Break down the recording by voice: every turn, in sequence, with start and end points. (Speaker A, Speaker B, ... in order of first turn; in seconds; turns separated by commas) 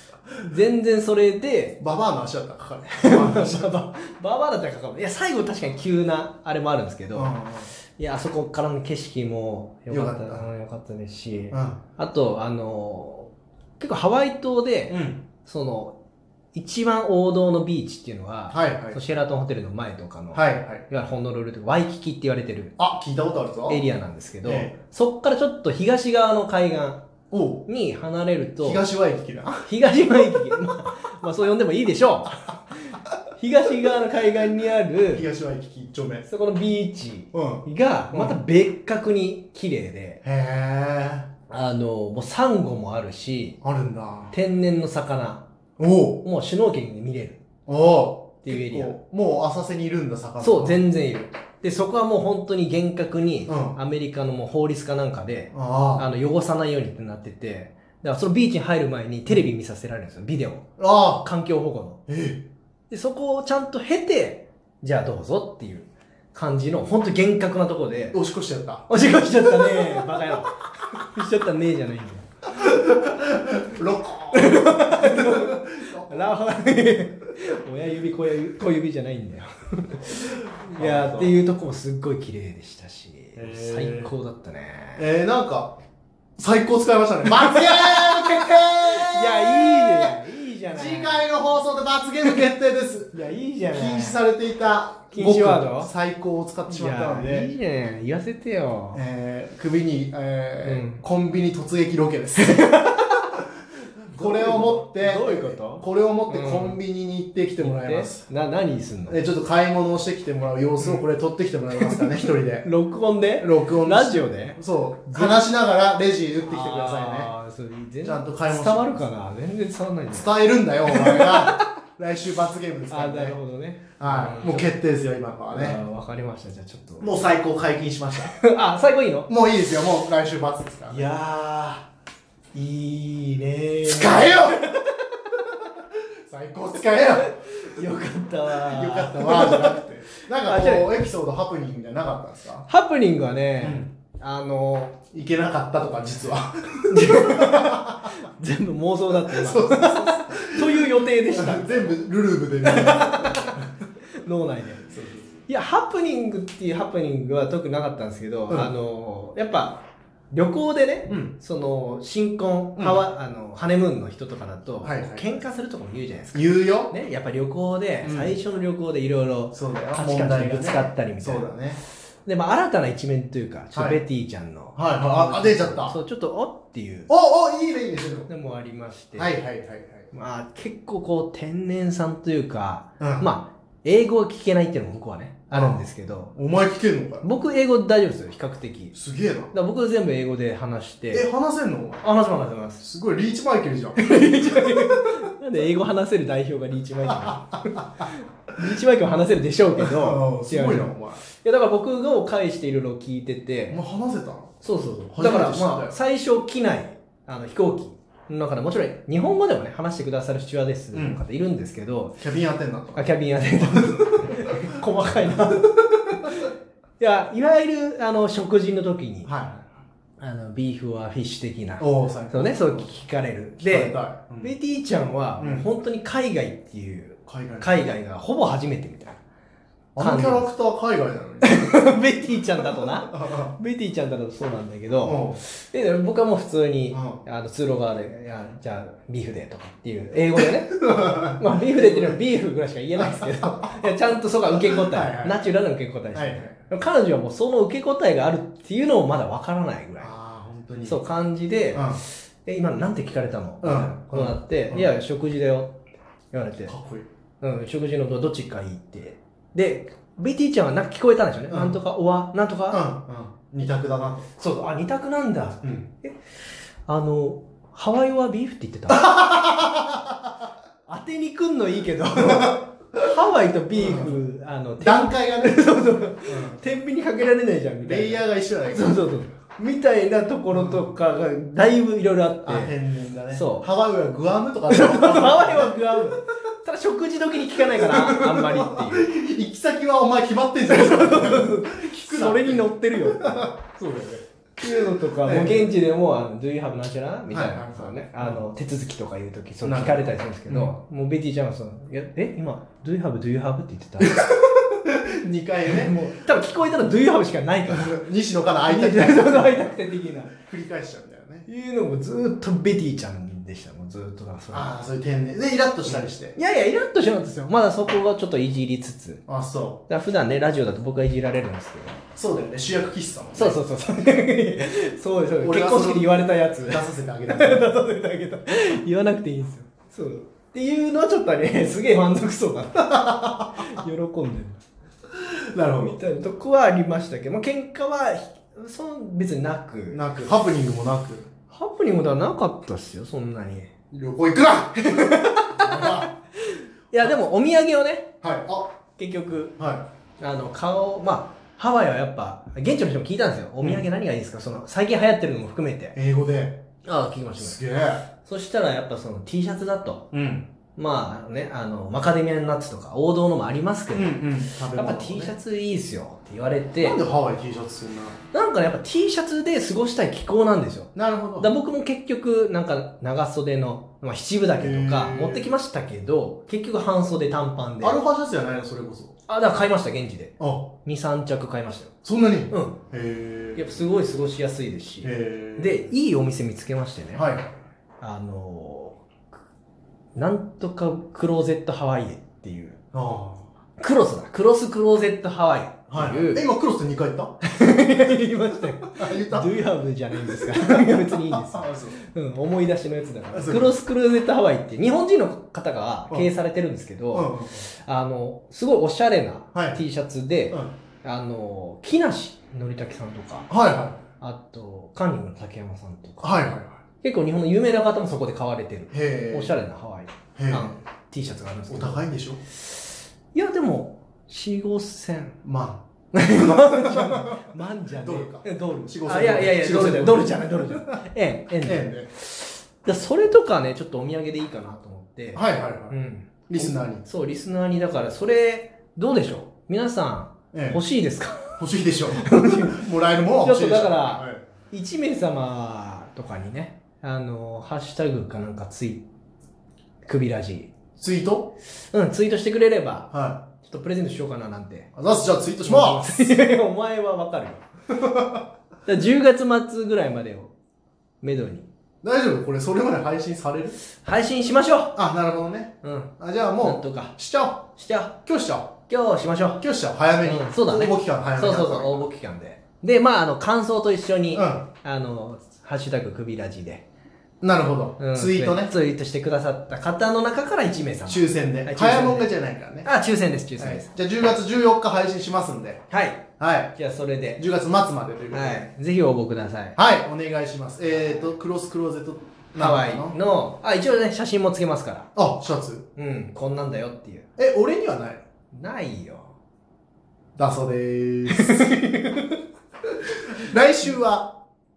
Speaker A: 0.4-1.8, Speaker B: 1.8-3.8, Speaker A: 3.0-16.0, Speaker B: 7.1-7.7, Speaker B: 9.9-10.5, Speaker B: 11.5-11.8, Speaker B: 14.9-15.2, Speaker A: 16.5-22.8, Speaker B: 18.5-19.0, Speaker B: 20.3-20.9, Speaker B: 22.8-23.8, Speaker A: 23.7-27.0, Speaker B: 24.4-24.7, Speaker B: 27.3-27.7, Speaker A: 27.7-28.8, Speaker B: 28.6-29.7, Speaker A: 29.7-35.3, Speaker B: 35.1-36.2, Speaker A: 36.3-40.2, Speaker B: 37.3-38.4, Speaker B: 40.2-41.3, Speaker A: 41.5-43.6, Speaker B: 43.6-44.4, Speaker A: 44.3-45.5, Speaker B: 45.8-46.2, Speaker A: 46.2-47.4, Speaker B: 47.7-50.8, Speaker A: 48.4-49.0, Speaker A: 50.4-60.7, Speaker B: 53.5-53.8, Speaker B: 55.5-56.1, Speaker B: 60.8-61.2, Speaker A: 61.2-62.0, Speaker B: 62.1-62.4, Speaker A: 62.9-68.2, Speaker B: 68.1-68.9, Speaker A: 68.9-72.3, Speaker B: 69.7-70.0, Speaker B: 72.6-76.3, Speaker A: 74.3-85.0, Speaker B: 80.3-81.4, Speaker B: 83.4-84.1, Speaker B: 85.0-85.8, Speaker B: 86.4-90.2, Speaker A: 87.3-91.3, Speaker B: 90.7-97.5, Speaker A: 93.1-94.2, Speaker A: 95.1-95.9, Speaker A: 96.7-99.0, Speaker B: 98.9-102.8, Speaker A: 100.6-101.0, Speaker A: 102.4-103.2, Speaker B: 104.1-108.2, Speaker A: 104.1-106.8, Speaker A: 107.6-109.2, Speaker B: 109.1-112.7, Speaker A: 111.8-115.4, Speaker B: 113.4-117.3, Speaker A: 116.5-120.3, Speaker B: 118.0-119.0, Speaker B: 120.1-123.4, Speaker A: 120.9-121.6, Speaker A: 122.9-124.7, Speaker B: 124.0-125.8, Speaker A: 125.5-127.1, Speaker B: 127.0-128.4, Speaker A: 128.2-129.3, Speaker B: 129.3-131.1, Speaker A: 130.9-131.9, Speaker A: 132.5-134.9, Speaker B: 133.8-134.8, Speaker B: 135.8-137.4, Speaker A: 136.8-140.9, Speaker B: 138.5-142.7, Speaker A: 142.7-145.0, Speaker B: 143.6-143.9, Speaker B: 145.1-148.1, Speaker A: 146.9-152.0, Speaker B: 149.2-153.7, Speaker A: 152.6-154.9, Speaker B: 154.9-155.3, Speaker A: 155.5-171.5, Speaker B: 161.1-161.3, Speaker B: 164.8-165.2, Speaker B: 166.3-166.9, Speaker B: 168.0-168.4, Speaker B: 169.5-171.8, Speaker A: 172.2-177.1, Speaker B: 173.8-174.0, Speaker B: 174.8-176.0, Speaker B: 177.1-178.3, Speaker A: 178.3-179.3, Speaker B: 179.2-180.1, Speaker A: 180.1-186.3, Speaker B: 183.0-183.3, Speaker B: 185.5-187.3, Speaker A: 187.2-188.9, Speaker B: 188.9-189.5, Speaker A: 189.5-191.3, Speaker B: 191.1-192.1, Speaker A: 192.0-192.8, Speaker B: 192.8-195.1, Speaker A: 194.0-203.8, Speaker B: 197.1-197.8, Speaker B: 199.8-201.2, Speaker B: 203.7-204.5, Speaker A: 204.6-212.2, Speaker B: 205.1-205.9, Speaker B: 210.9-211.2, Speaker B: 212.2-214.8, Speaker A: 212.9-219.3, Speaker B: 219.3-219.6, Speaker A: 220.2-229.2, Speaker B: 221.8-222.9, Speaker B: 223.6-224.5, Speaker B: 225.4-225.7, Speaker B: 227.3-227.9, Speaker B: 230.0-231.8, Speaker A: 230.0-230.5, Speaker A: 231.4-250.1, Speaker B: 232.7-233.5, Speaker B: 235.0-235.4, Speaker B: 236.9-237.2, Speaker B: 240.3-242.2, Speaker B: 243.0-243.9, Speaker B: 244.5-245.4, Speaker B: 246.1-246.6, Speaker B: 250.0-251.0, Speaker A: 250.8-255.8, Speaker B: 251.7-252.0, Speaker B: 253.6-254.9, Speaker A: 256.3-256.7, Speaker B: 256.7-257.1, Speaker A: 257.4-262.9, Speaker B: 261.5-261.8, Speaker B: 262.7-264.3, Speaker A: 264.4-266.2, Speaker B: 265.6-265.9, Speaker A: 266.9-269.1, Speaker B: 268.9-270.2, Speaker A: 270.9-282.7, Speaker B: 272.2-272.6, Speaker B: 273.7-274.2, Speaker B: 274.8-276.6, Speaker B: 277.8-279.0, Speaker B: 280.5-280.9, Speaker B: 282.5-286.2, Speaker A: 283.3-283.7, Speaker A: 284.7-289.1, Speaker B: 287.6-295.7, Speaker A: 290.6-293.5, Speaker A: 294.6-304.2, Speaker B: 297.3-298.5, Speaker B: 299.6-300.7, Speaker B: 304.0-306.0, Speaker A: 305.7-308.0, Speaker B: 307.7-309.7, Speaker A: 308.7-310.4, Speaker B: 310.3-311.5, Speaker A: 311.5-314.7, Speaker B: 314.5-316.4, Speaker A: 315.9-319.2, Speaker B: 319.3-319.8, Speaker A: 319.9-322.0, Speaker B: 322.2-323.6, Speaker A: 323.4-334.6, Speaker B: 325.4-327.7, Speaker B: 333.1-333.5, Speaker B: 335.2-336.0, Speaker A: 335.8-340.1, Speaker B: 339.9-341.3, Speaker A: 341.5-343.7, Speaker B: 343.9-346.1, Speaker A: 344.9-348.1, Speaker B: 348.2-348.7, Speaker A: 349.0-349.5, Speaker B: 349.6-349.8, Speaker A: 350.2-356.0, Speaker B: 353.6-353.9, Speaker B: 355.9-356.6, Speaker A: 356.9-357.6, Speaker B: 357.4-358.1, Speaker A: 358.2-360.1, Speaker B: 360.1-360.5, Speaker A: 360.8-364.2, Speaker B: 363.9-365.4, Speaker A: 364.7-367.0, Speaker B: 366.8-368.2, Speaker A: 368.3-378.0, Speaker B: 370.9-371.5, Speaker B: 374.6-375.5, Speaker B: 377.8-379.1, Speaker A: 379.3-381.9, Speaker B: 380.4-380.7, Speaker B: 382.1-383.9, Speaker A: 382.5-382.8, Speaker A: 383.6-387.3, Speaker B: 385.0-385.8, Speaker B: 387.1-387.5, Speaker A: 388.0-389.0, Speaker A: 390.1-392.8, Speaker B: 392.9-393.5, Speaker A: 393.8-396.4, Speaker B: 395.9-397.4, Speaker A: 397.4-413.5, Speaker B: 398.9-399.6, Speaker B: 400.2-402.0, Speaker B: 403.3-403.7, Speaker B: 407.1-407.7, Speaker B: 409.6-409.8, Speaker B: 413.5-414.0, Speaker A: 414.2-416.3, Speaker B: 416.2-416.8, Speaker A: 417.0-422.1, Speaker B: 418.9-419.6, Speaker B: 420.4-420.7, Speaker B: 421.7-422.4, Speaker A: 423.3-425.4, Speaker B: 425.4-427.4, Speaker A: 426.1-441.6, Speaker B: 428.0-431.0, Speaker B: 431.6-432.1, Speaker B: 435.3-436.0, Speaker B: 436.5-437.1, Speaker B: 440.5-440.8, Speaker B: 441.6-444.4, Speaker A: 442.2-442.8, Speaker A: 443.4-449.1, Speaker A: 450.1-450.7, Speaker B: 451.0-451.5, Speaker A: 451.9-454.9, Speaker B: 453.1-453.4, Speaker B: 455.0-456.1, Speaker A: 455.6-457.6, Speaker B: 457.9-458.4, Speaker A: 458.9-460.5, Speaker A: 461.2-461.7, Speaker B: 462.0-463.8, Speaker A: 464.0-465.0, Speaker B: 464.9-467.7, Speaker A: 465.8-467.1, Speaker A: 467.8-468.2, Speaker B: 468.3-468.7, Speaker A: 468.9-469.6, Speaker B: 469.6-472.0, Speaker A: 470.2-476.9, Speaker B: 474.3-474.6, Speaker B: 477.4-478.7, Speaker A: 478.0-482.3, Speaker B: 481.1-482.9, Speaker A: 482.8-483.9, Speaker B: 483.6-485.8, Speaker A: 485.9-487.4, Speaker B: 486.4-486.8, Speaker B: 487.4-488.7, Speaker A: 488.3-489.8, Speaker B: 489.8-493.2, Speaker A: 490.9-491.3, Speaker A: 492.6-495.1, Speaker B: 495.2-495.9, Speaker A: 496.0-497.3, Speaker B: 497.4-498.2, Speaker A: 498.5-499.3, Speaker B: 500.4-501.8, Speaker A: 501.3-502.4, Speaker B: 503.4-504.4